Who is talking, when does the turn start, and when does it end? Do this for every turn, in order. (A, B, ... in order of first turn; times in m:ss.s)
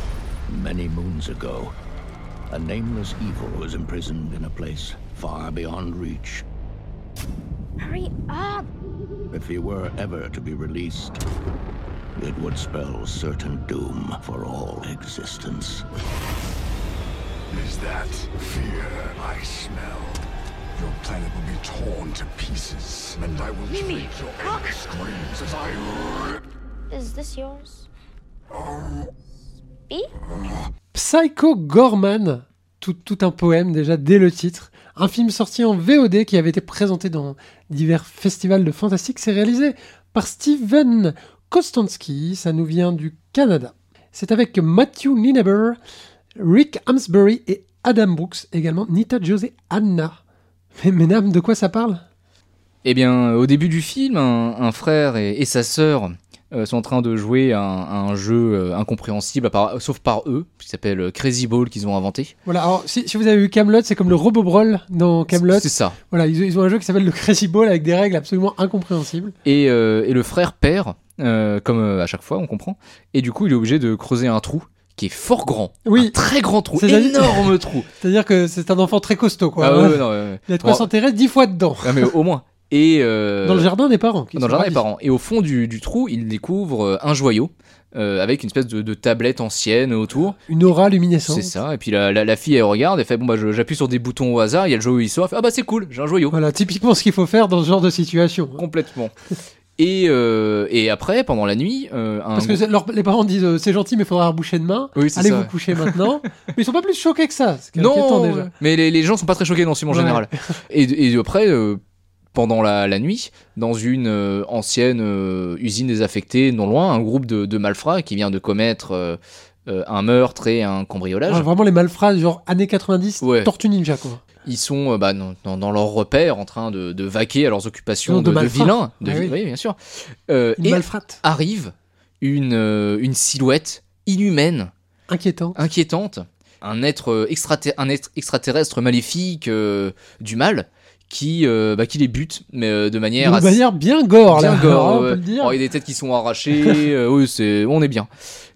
0:00.5-0:01.7 A
0:02.5-0:06.5 A
0:07.8-0:08.7 B
0:09.3-0:11.2 A
0:12.2-0:15.8 A
0:17.5-0:20.2 C
0:20.8-0:26.4 C
0:23.7-0:24.7 B
0:26.9-0:27.9 B
0:30.9-0:45.8 D
0:46.4-0:50.2 D
0:50.8-0:52.0 D
0:52.8-1:02.3 E
1:02.4-1:09.4 D
1:05.3-1:06.0 E
1:09.4-1:17.9 E
1:15.8-1:16.2 D
1:16.8-1:22.2 D
1:19.6-1:20.9 E
1:21.8-1:23.7 E
1:23.4-1:24.8 D
1:24.4-1:30.4 E
1:30.5-1:31.5 D
1:31.3-1:36.4 E
1:36.3-1:38.7 D
1:38.6-1:39.1 E
1:39.8-1:42.6 E
1:42.4-1:48.5 D
1:45.0-1:46.0 E
1:47.8-1:51.8 E
1:49.9-1:50.5 D
1:52.3-2:01.5 E
2:01.3-2:04.2 D
2:03.2-2:03.5 E
2:04.4-2:14.7 E
2:08.1-2:09.4 D
2:10.6-2:11.2 D
2:15.1-2:15.6 D
2:15.6-2:23.6 E
2:23.2-2:25.6 D
2:24.3-2:28.1 E